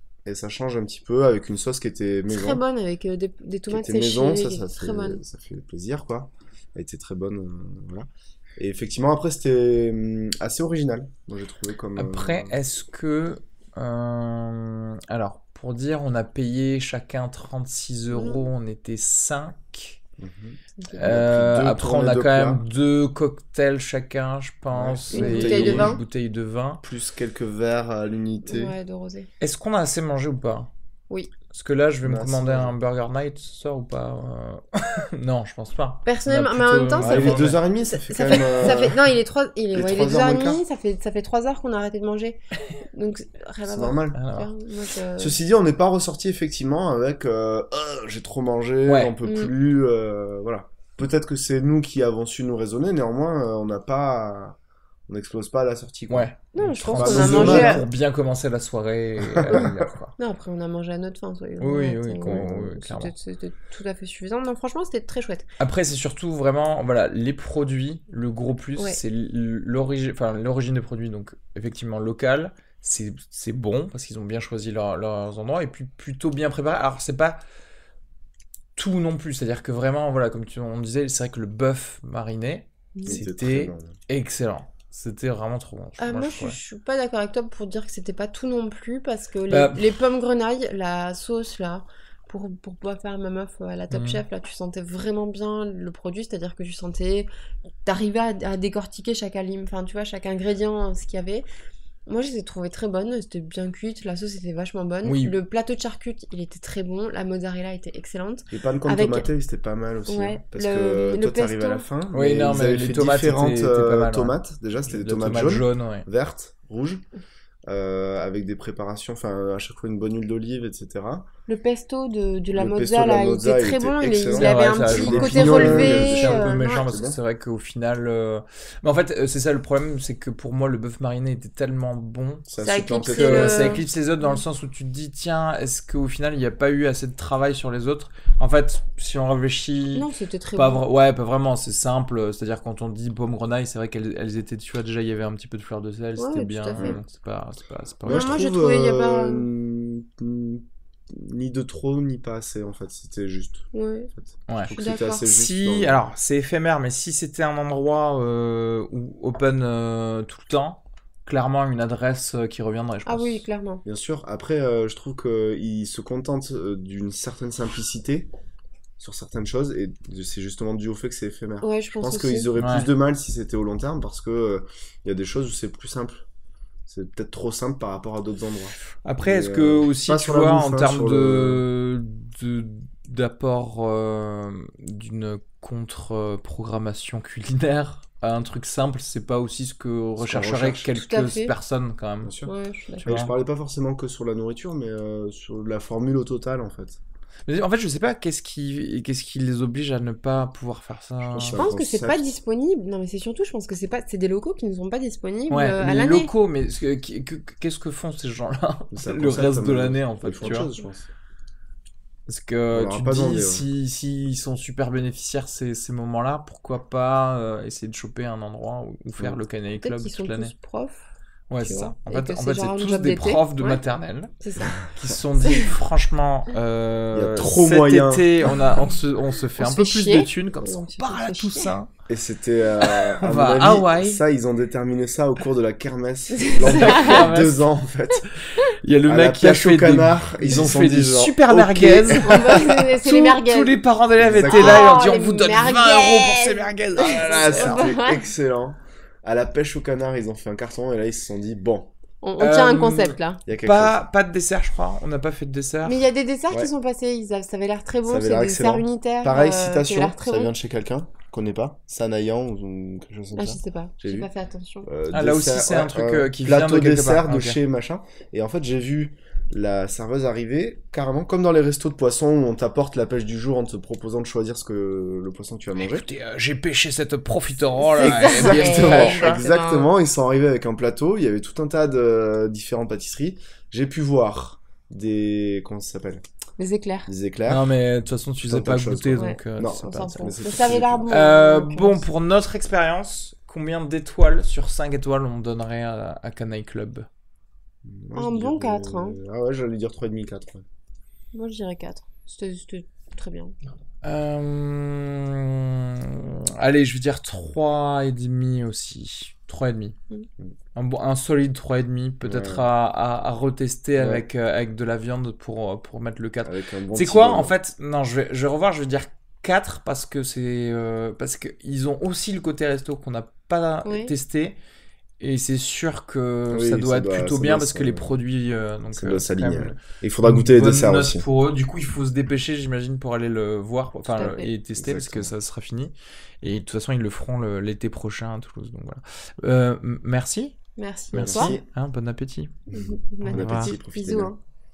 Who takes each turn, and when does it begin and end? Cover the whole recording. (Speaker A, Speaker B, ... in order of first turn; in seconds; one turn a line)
Speaker A: 0.2-2.6
Speaker B: 2.3-5.2
Speaker A: 3.7-12.6
Speaker C: 11.9-20.0
Speaker B: 18.1-18.5
Speaker A: 20.2-22.6
Speaker C: 20.9-26.8
Speaker A: 24.7-26.0
Speaker B: 25.1-26.0
Speaker A: 26.8-28.7
Speaker B: 28.4-29.3
Speaker C: 29.4-30.7
Speaker C: 31.5-37.6
Speaker A: 32.0-32.7
Speaker B: 36.0-42.4
Speaker A: 37.0-39.0
Speaker A: 39.7-40.6
Speaker B: 42.9-45.4
Speaker A: 43.6-44.2
Speaker C: 44.1-44.5
Speaker A: 45.2-54.5
Speaker C: 48.9-49.1
Speaker B: 49.2-49.5
Speaker A: 55.1-56.3
Speaker C: 56.1-60.1
Speaker B: 56.5-57.8
Speaker A: 56.9-57.8
Speaker A: 59.3-59.7
Speaker B: 60.2-65.5
Speaker C: 61.6-63.1
Speaker C: 65.6-77.4
Speaker C: 78.8-86.6
Speaker B: 82.9-83.2
Speaker A: 83.0-83.9
Speaker B: 86.0-97.3
Speaker C: 89.5-89.9
Speaker C: 93.9-94.2
Speaker B: 97.8-101.5
Speaker B: 102.1-109.3
Speaker C: 105.0-105.3
Speaker A: 108.5-117.0
Speaker B: 110.1-111.8
Speaker C: 112.1-116.1
Speaker A: 117.7-121.3
Speaker B: 121.5-126.8
Speaker A: 122.5-127.2
Speaker C: 124.3-132.5
Speaker A: 132.5-133.8
Speaker B: 132.6-134.4
Speaker C: 133.1-148.4
Speaker B: 139.9-140.8
Speaker B: 146.2-146.9
Speaker A: 148.0-156.0
Speaker B: 148.1-149.5
Speaker B: 153.7-154.1
Speaker C: 154.5-163.4
Speaker B: 154.7-155.3
Speaker B: 163.1-163.8
Speaker A: 163.8-168.3
Speaker A: 169.0-176.2
Speaker B: 171.6-172.5
Speaker C: 172.6-172.9
Speaker A: 176.9-181.6
Speaker C: 179.0-192.3
Speaker A: 190.2-190.9
Speaker B: 190.9-191.5
Speaker A: 192.2-192.5
Speaker B: 192.4-193.1
Speaker C: 193.0-193.3
Speaker A: 193.0-197.0
Speaker C: 197.4-201.7
Speaker A: 201.2-202.3
Speaker B: 201.4-206.3
Speaker C: 205.5-210.7
Speaker A: 208.9-211.1
Speaker C: 212.3-220.5
Speaker A: 212.7-213.7
Speaker B: 219.8-221.0
Speaker C: 221.5-231.9
Speaker B: 221.6-223.8
Speaker B: 224.4-224.8
Speaker B: 225.4-225.7
Speaker A: 227.1-228.6
Speaker B: 229.6-231.7
Speaker A: 232.1-238.3
Speaker C: 232.8-234.2
Speaker B: 236.3-237.3
Speaker C: 236.6-237.7
Speaker C: 238.6-247.9
Speaker A: 239.0-242.6
Speaker B: 242.2-243.8
Speaker A: 244.2-245.1
Speaker B: 244.4-248.3
Speaker A: 247.0-251.9
Speaker B: 252.2-253.4
Speaker C: 252.4-256.0
Speaker A: 253.4-254.0
Speaker B: 255.8-260.5
Speaker A: 258.1-264.3
Speaker B: 263.3-264.9
Speaker A: 264.9-276.1
Speaker C: 265.1-267.6
Speaker C: 275.8-279.4
Speaker B: 277.8-279.9
Speaker A: 278.0-286.2
Speaker B: 286.6-287.1
Speaker A: 287.1-287.7
Speaker C: 287.4-290.4
Speaker A: 288.4-291.1
Speaker B: 289.1-292.1
Speaker C: 291.1-297.1
Speaker A: 297.8-300.6
Speaker B: 298.1-299.2
Speaker B: 301.3-303.5
Speaker C: 304.0-309.9
Speaker C: 310.7-324.6
Speaker A: 312.2-312.6
Speaker A: 314.0-314.2
Speaker A: 316.4-317.5
Speaker B: 323.8-324.1
Speaker C: 325.2-340.6
Speaker A: 326.5-328.2
Speaker A: 328.9-331.2
Speaker B: 334.1-334.5
Speaker A: 334.8-335.3
Speaker B: 340.8-341.6
Speaker A: 341.1-341.6
Speaker C: 341.1-342.5
Speaker A: 342.7-344.3
Speaker B: 342.7-344.4
Speaker C: 343.2-343.7